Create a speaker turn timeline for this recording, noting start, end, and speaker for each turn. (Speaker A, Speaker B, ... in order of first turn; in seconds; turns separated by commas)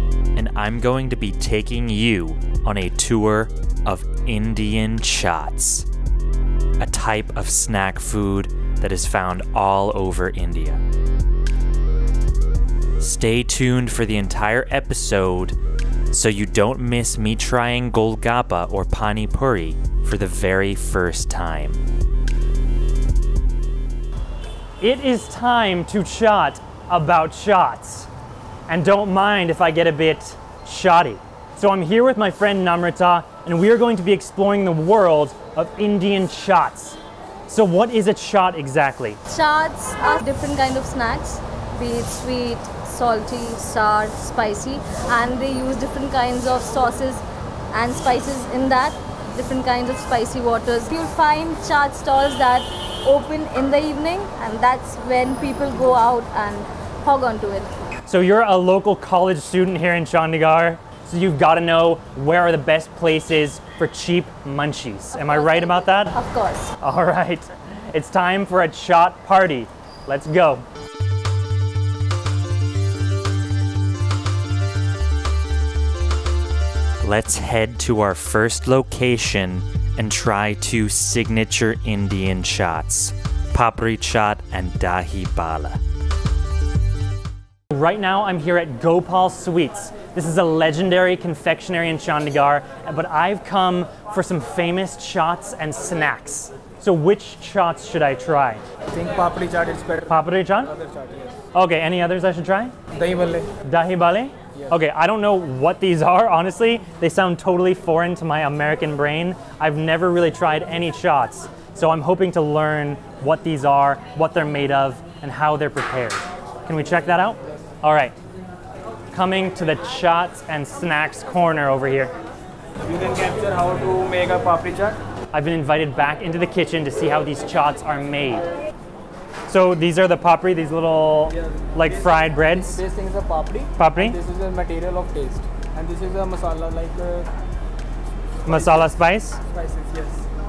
Speaker A: 0.3-5.9, Speaker A: 6.8-10.8, Speaker A: 13.0-15.6, Speaker A: 16.1-21.8, Speaker B: 24.8-28.1, Speaker B: 28.7-39.2, Speaker C: 39.3-57.7, Speaker B: 58.1-66.2, Speaker C: 65.1-66.8, Speaker B: 66.8-70.7, Speaker A: 77.0-85.8, Speaker B: 87.7-98.6, Speaker D: 98.9-101.3, Speaker B: 100.1-100.7, Speaker B: 101.5-102.7, Speaker D: 103.0-103.5, Speaker B: 103.6-118.2, Speaker B: 119.1-122.1, Speaker D: 122.9-125.0, Speaker B: 125.3-128.5, Speaker B: 129.5-132.8, Speaker D: 131.8-137.3, Speaker B: 133.8-134.2, Speaker B: 138.4-139.4, Speaker D: 138.5-138.9, Speaker D: 139.5-140.2